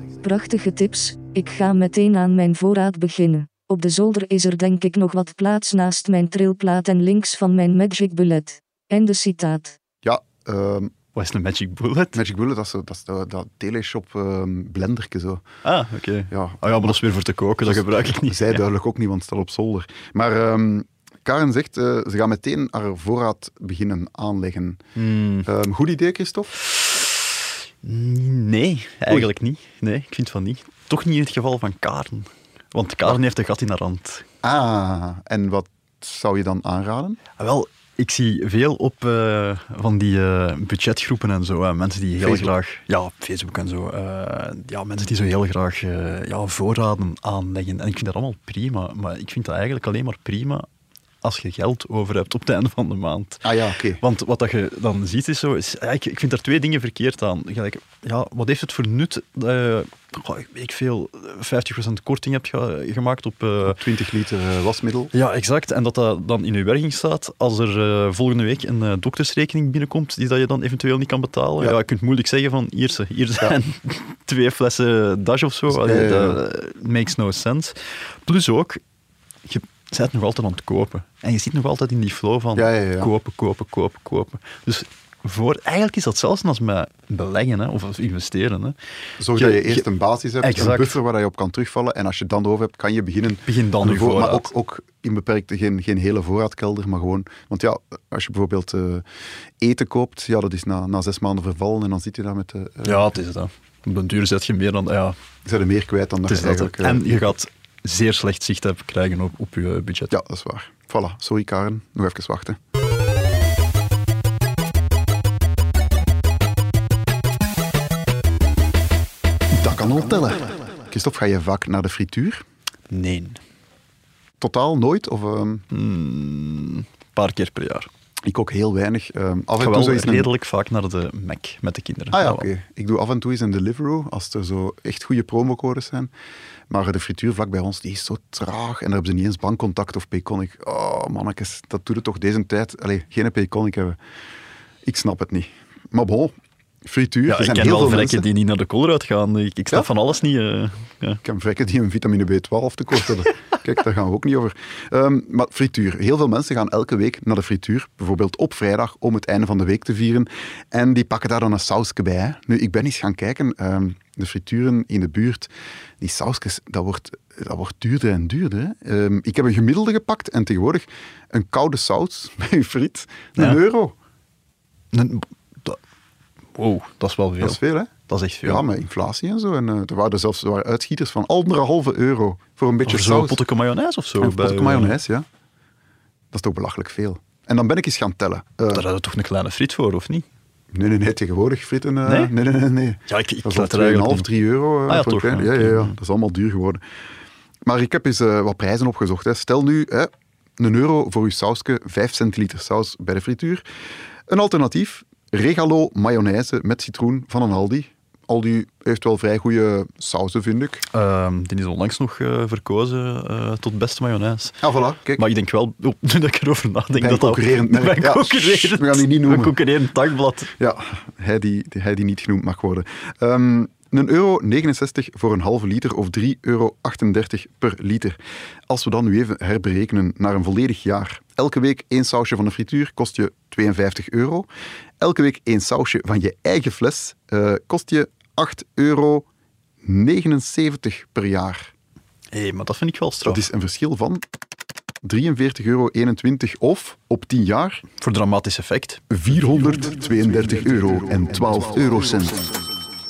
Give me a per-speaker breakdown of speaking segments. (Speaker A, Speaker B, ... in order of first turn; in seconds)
Speaker A: 0.2-9.8
Speaker B: 10.0-10.9, 12.1-15.4, 16.3-17.0, 17.6-24.8, 25.4-26.5, 34.4-37.2, 42.2-42.5, 53.4-54.0, 63.6-65.1, 75.7-76.4, 82.6-83.1, 89.2-99.0, 99.6-103.1, 105.5-107.3, 110.1-112.6, 119.5-122.4, 124.4-125.7, 128.2-130.3, 132.1-136.1, 136.7-144.0, 144.8-148.2, 151.2-173.9, 177.4-177.9, 178.4-183.4, 184.2-185.3, 186.3-188.9, 190.7-196.8, 197.6-203.6, 204.3-210.8, 214.6-215.3, 217.0-219.6, 220.6-234.5, 235.0-239.3, 239.8-241.7, 243.2-244.2, 245.0-247.8, 249.1-252.6
Speaker C: 11.2-12.2, 15.6-18.6, 25.0-25.5, 26.6-27.3, 27.8-34.2, 37.4-50.7, 51.2-53.5, 54.0-63.8, 65.1-78.8, 79.5-88.8, 89.3-89.9, 90.4-91.0, 93.5-94.5, 102.8-105.2, 106.3-110.2, 122.9-123.4, 125.7-127.9, 129.6-132.5, 147.3-151.2, 173.4-173.6, 174.9-175.8, 176.6-178.7, 182.8-185.0, 188.7-190.3, 192.1-192.3, 193.1-194.3, 194.9-196.0, 210.9-214.6, 215.2-220.5, 242.3-243.4, 248.0-249.0